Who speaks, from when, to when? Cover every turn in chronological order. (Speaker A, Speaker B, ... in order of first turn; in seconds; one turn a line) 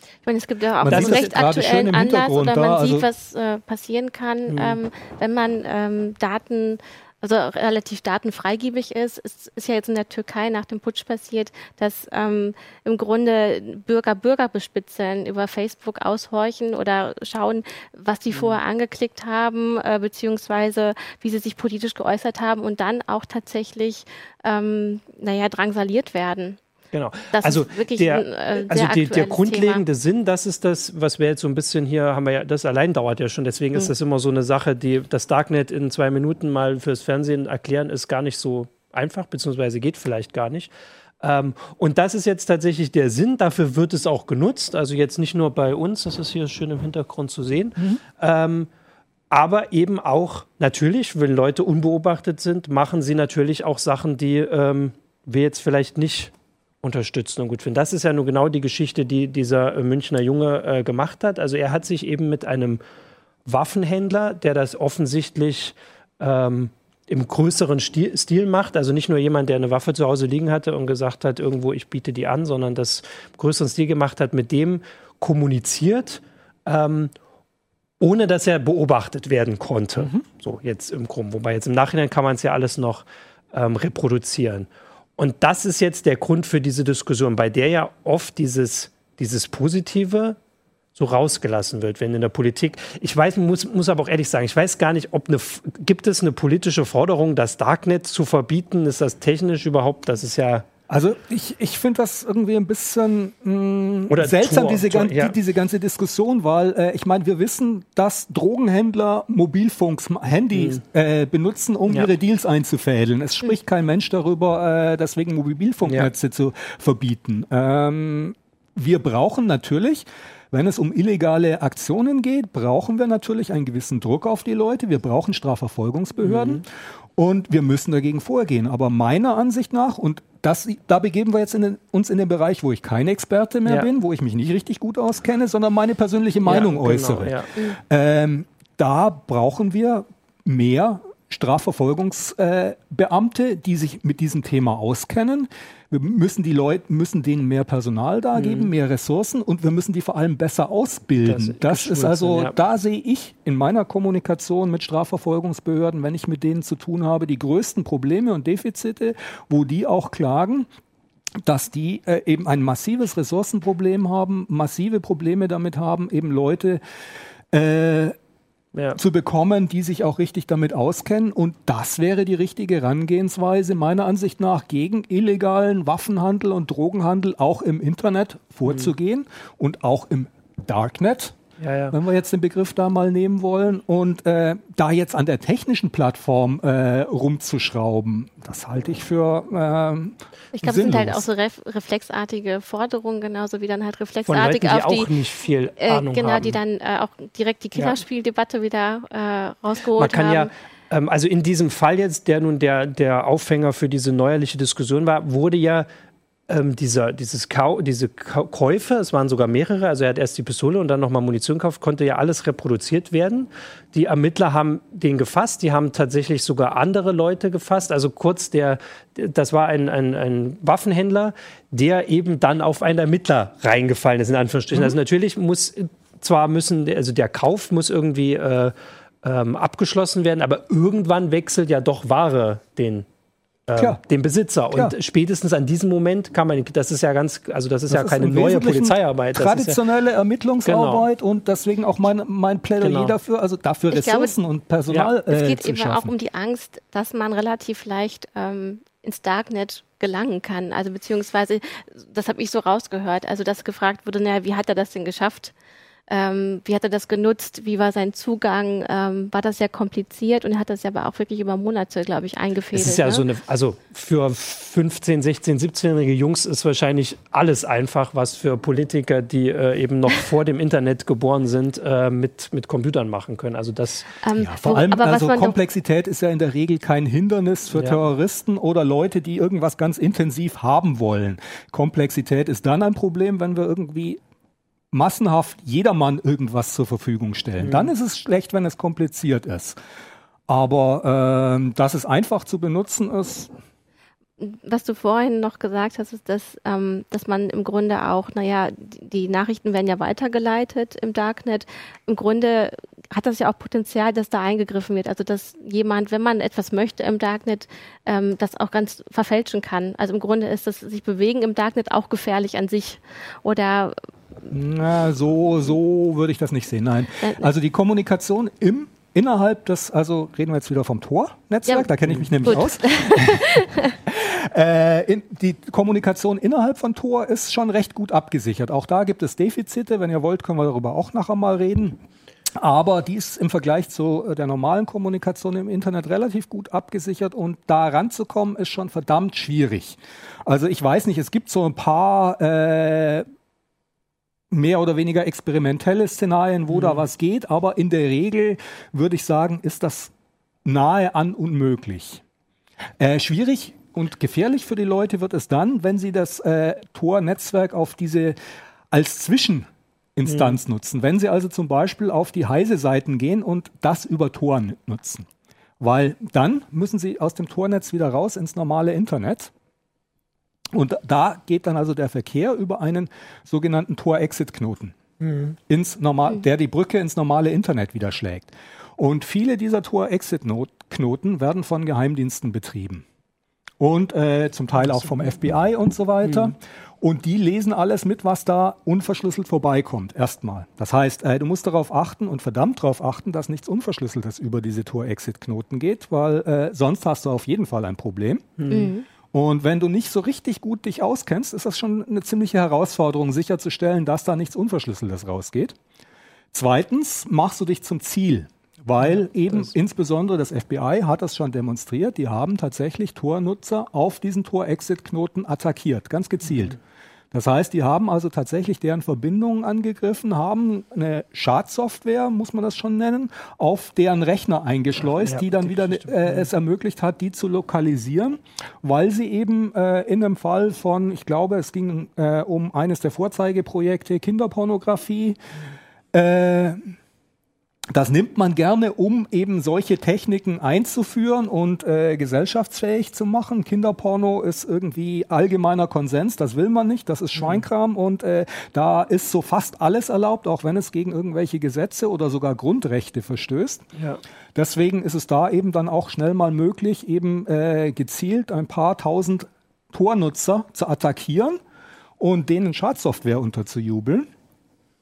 Speaker A: 0.3-26.6
Speaker B: 0.8-3.1
Speaker C: 0.9-1.3
Speaker C: 4.5-4.8
Speaker C: 18.3-18.6
Speaker C: 26.9-40.7
Speaker A: 27.3-29.8
Speaker C: 41.2-48.7
Speaker C: 49.3-56.3
Speaker C: 56.8-62.8
Speaker C: 63.5-77.1
Speaker C: 78.0-90.4
Speaker B: 80.0-80.2
Speaker C: 91.0-100.7
Speaker B: 100.9-160.7
Speaker C: 104.1-105.4
Speaker C: 110.5-110.8
Speaker C: 126.2-126.6
Speaker C: 136.4-137.5
Speaker C: 148.4-148.7
Speaker C: 151.2-152.6
Speaker B: 161.4-166.8
Speaker B: 167.5-168.2
Speaker C: 168.7-169.0
Speaker B: 169.0-181.4
Speaker C: 181.6-182.0
Speaker B: 181.9-191.2
Speaker A: 190.5-195.1
Speaker C: 194.3-196.6
Speaker A: 195.8-200.5
Speaker C: 200.0-205.9
Speaker C: 206.5-233.1
Speaker B: 224.7-225.0
Speaker C: 233.7-239.8
Speaker B: 237.9-246.1
Speaker C: 240.7-241.1
Speaker C: 242.8-243.2
Speaker A: 243.9-244.3
Speaker A: 245.3-255.5
Speaker A: 256.1-263.3
Speaker C: 262.7-274.1
Speaker A: 274.2-275.6
Speaker B: 274.4-284.2
Speaker B: 284.9-289.8
Speaker C: 287.6-287.9
Speaker B: 290.5-293.5
Speaker A: 294.4-314.0
Speaker B: 314.5-332.0
Speaker A: 317.2-317.5
Speaker A: 322.4-324.0
Speaker B: 332.6-343.2
Speaker B: 344.5-350.1
Speaker C: 346.7-347.0
Speaker B: 350.6-352.2
Speaker B: 353.0-358.4
Speaker B: 358.9-365.3
Speaker C: 360.3-360.6
Speaker B: 365.8-369.5
Speaker B: 370.7-375.0
Speaker C: 375.2-375.6
Speaker B: 375.7-383.0
Speaker B: 383.8-398.6
Speaker C: 398.6-398.9
Speaker A: 398.7-399.1
Speaker B: 399.3-405.8
Speaker B: 406.5-416.8
Speaker B: 417.3-435.4
Speaker C: 425.2-426.5
Speaker B: 436.1-437.0
Speaker B: 437.9-453.8
Speaker C: 447.4-447.6
Speaker C: 454.0-454.2
Speaker B: 454.6-461.6
Speaker B: 462.2-464.3